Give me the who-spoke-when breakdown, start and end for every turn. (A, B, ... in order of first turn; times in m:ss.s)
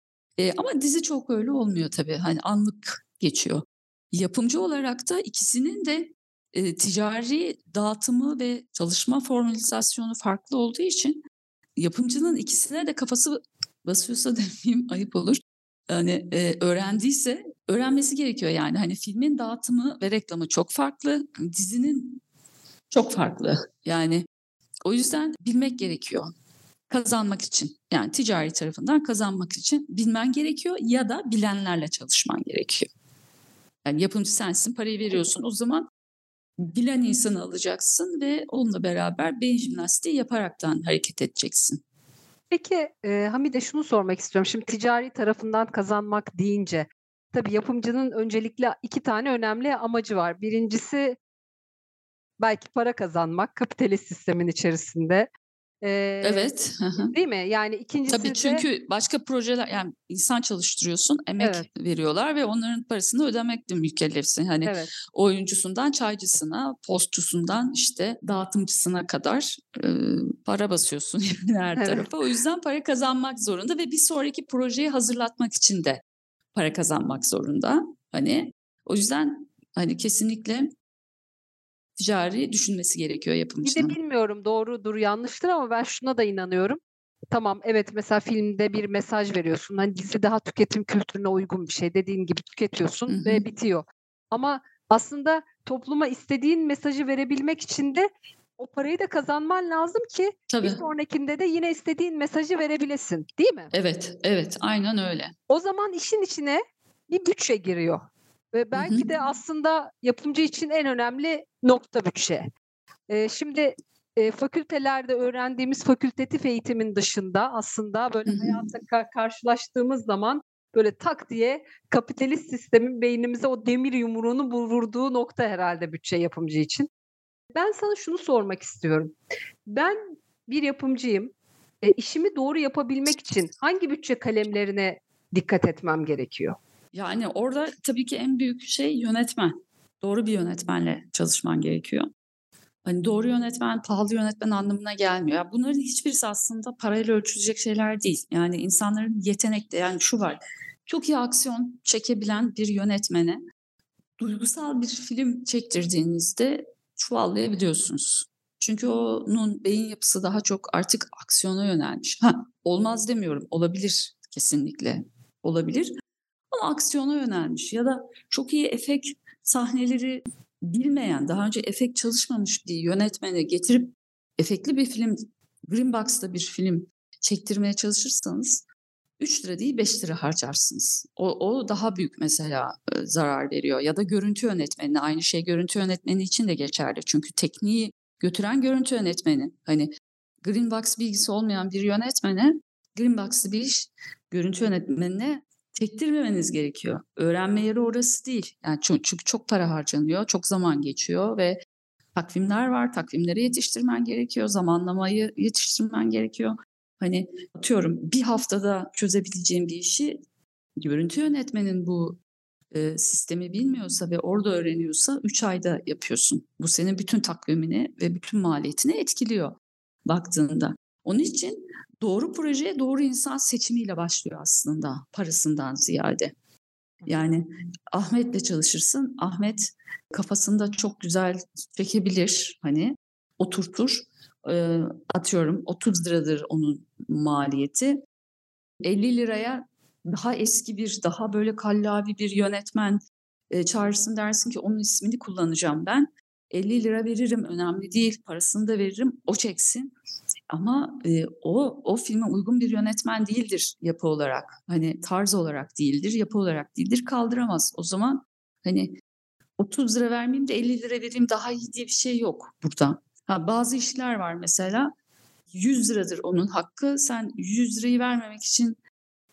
0:00.4-0:11.2 A
0:11.8-0:22.2 A
0:22.9-0:24.2 A
0:24.8-0:26.3 A
0:26.9-0:32.9 A
0:33.8-0:35.9 A
0:36.6-0:41.8 A
0:42.5-0:51.2 B
0:52.4-0:55.3 B
0:55.8-0:56.5 B
0:56.2-0:57.1 A
0:57.1-0:58.6 B
0:58.1-1:16.0 A
1:01.4-1:01.6 B
1:04.6-1:04.9 B
1:11.8-1:12.0 B
1:16.5-1:20.7 A
1:22.0-1:24.0 A
1:23.6-1:26.8 B
1:27.3-1:38.1 B
1:33.1-1:33.4 A
1:38.6-1:43.7 B
1:40.5-1:40.8 A
1:43.7-1:45.3 A
1:45.5-1:48.0 B
1:48.5-1:52.5 B
1:48.7-1:49.0 A
1:53.1-2:06.9 B
1:58.2-1:58.6 A
2:07.5-2:09.2 B
2:09.7-2:16.6 B
2:16.9-2:22.1 A
2:22.8-2:33.4 A
2:34.2-2:45.9 A
2:46.5-2:58.6 A
2:59.2-3:09.9 A
3:10.4-3:21.6 A
3:22.1-3:30.2 A
3:30.8-3:32.2 A
3:32.7-3:46.3 A
3:47.1-3:58.0 A
3:58.8-4:09.9 A
4:10.5-4:18.9 A
4:19.6-4:24.9 A
4:25.5-4:28.8 A